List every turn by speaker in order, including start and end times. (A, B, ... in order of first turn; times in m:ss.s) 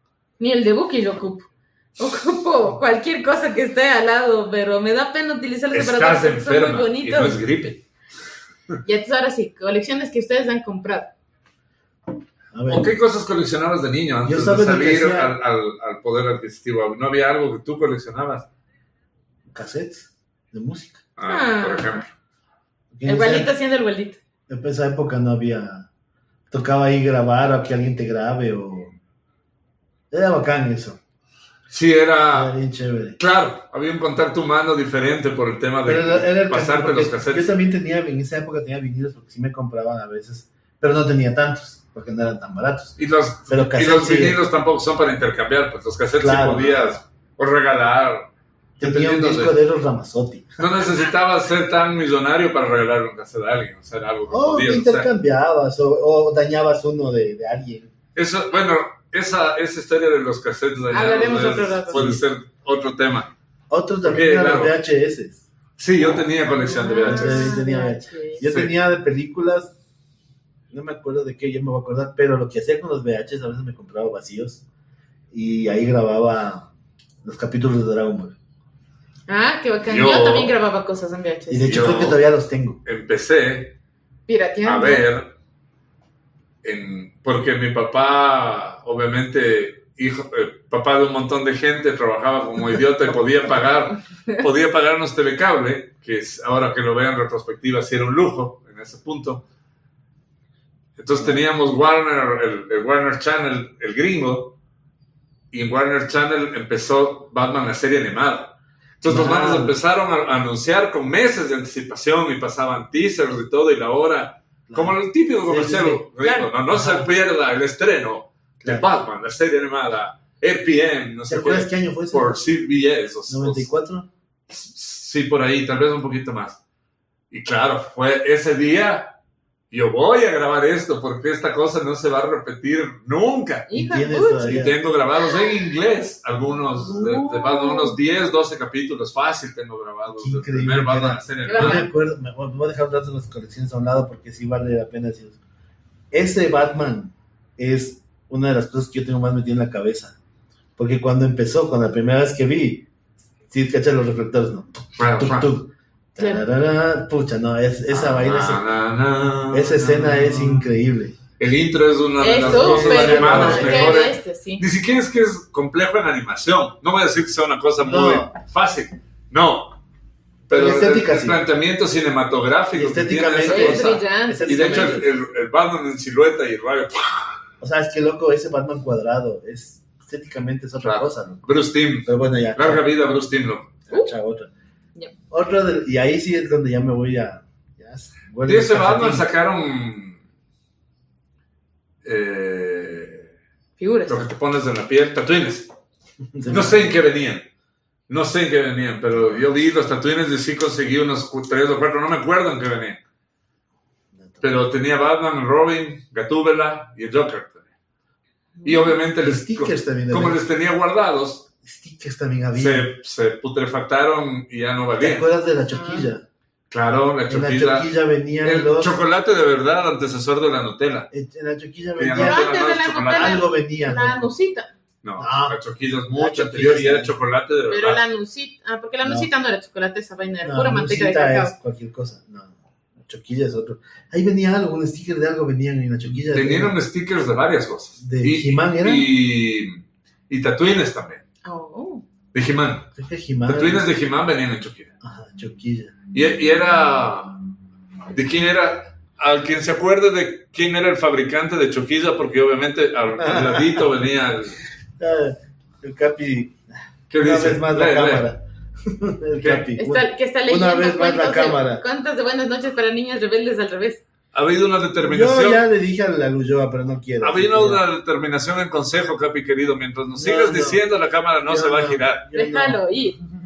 0:00.4-0:07.4 A
0:05.7-0:07.8 B
0:08.8-0:11.1 A
0:12.5-0:12.9 C
0:12.7-0:18.5 B
0:14.2-0:15.3 C
0:19.5-0:21.0 C
0:21.2-0:22.1 B
0:21.3-0:22.0 A
0:22.9-0:23.5 C
0:23.0-0:24.2 A
0:24.5-0:25.9 C
0:26.5-0:29.0 C
0:30.1-0:31.0 C
0:31.7-0:32.6 B
0:32.3-0:33.2 C
0:33.2-0:37.5 B
0:35.8-0:43.0 C
0:43.0-0:48.3 B
0:43.5-0:44.4 C
0:46.2-0:47.0 C
0:48.8-0:49.6 B
0:48.8-0:50.6 C
0:50.6-0:55.1 B
0:54.3-0:57.9 C
0:58.1-1:03.3 B
1:00.9-1:02.0 A
1:01.9-1:02.2 C
1:03.7-1:05.4 C
1:04.0-1:04.8 B
1:05.8-1:07.6 B
1:06.6-1:08.4 A
1:07.0-1:09.7 C
1:08.4-1:08.7 B
1:10.7-1:14.6 C
1:15.3-1:16.7 C
1:17.2-1:18.4 C
1:19.3-1:21.8 A
1:19.8-1:20.5 B
1:21.5-1:22.8 C
1:21.7-1:22.2 B
1:22.8-1:23.8 B
1:24.3-1:25.1 A
1:24.6-1:25.3 B
1:26.6-1:39.4 B
1:41.0-1:44.6 B
1:45.5-2:03.7 B
1:49.0-1:49.8 C
1:54.7-1:56.1 C
1:56.2-1:56.5 A
1:56.7-1:57.1 C
2:01.3-2:02.4 C
2:03.3-2:04.1 C
2:04.5-2:06.6 B
2:07.3-2:09.1 B
2:09.7-2:13.7 B
2:13.7-2:14.6 A
2:13.7-2:14.8 C
2:14.4-2:21.9 B
2:16.9-2:18.0 A
2:20.1-2:25.4 C
2:21.4-2:21.9 A
2:26.1-2:30.2 C
2:30.8-2:32.9 C
2:33.5-2:38.6 C
2:35.0-2:35.5 B
2:36.2-2:36.4 A
2:37.9-2:40.7 B
2:39.5-2:41.2 C
2:41.4-2:49.8 B
2:42.2-2:44.6 A
2:42.4-2:44.1 C
2:47.8-2:48.3 C
2:50.5-2:57.3 B
2:50.5-2:51.4 C
2:52.7-2:55.1 C
2:53.4-2:55.0 A
2:57.6-3:01.4 C
3:00.8-3:03.7 B
3:02.0-3:02.9 C
3:03.9-3:04.5 C
3:05.3-3:09.3 C
3:08.4-3:10.2 B
3:12.0-3:13.3 B
3:13.8-3:14.3 A
3:14.1-3:15.7 B
3:16.3-3:17.0 C
3:16.5-3:17.5 B
3:18.1-3:23.0 B
3:19.2-3:19.4 C
3:24.2-3:24.6 C
3:24.4-3:27.6 B
3:28.6-3:29.0 A
3:28.6-3:31.5 B
3:29.2-3:30.4 C
3:31.6-3:32.9 C
3:32.5-3:35.3 B
3:35.0-3:36.2 C
3:35.7-3:36.1 A
3:36.7-3:41.1 B
3:37.3-3:39.0 C
3:41.1-3:42.5 C
3:42.0-3:43.4 B
3:42.2-3:44.7 A
3:43.1-3:44.3 C
3:45.0-3:48.0 B
3:45.2-3:45.6 C
3:46.1-3:47.1 C
3:47.7-3:51.5 A
3:49.0-3:49.3 C
3:50.4-3:56.8 C
3:56.2-4:01.2 B
3:58.0-3:59.1 C
4:01.4-4:02.0 A
4:02.3-4:02.9 B
4:03.0-4:03.9 C
4:03.5-4:04.9 B
4:05.0-4:06.0 C
4:06.1-4:07.3 B
4:08.1-4:14.6 B
4:13.2-4:13.9 C
4:15.0-4:16.6 C
4:17.1-4:18.3 B
4:17.2-4:21.8 C
4:19.4-4:19.7 B
4:19.8-4:24.0 A
4:24.3-4:25.6 B
4:25.0-4:27.8 C
4:27.2-4:32.2 B
4:30.1-4:30.8 C
4:31.4-4:32.8 C
4:32.3-4:33.2 A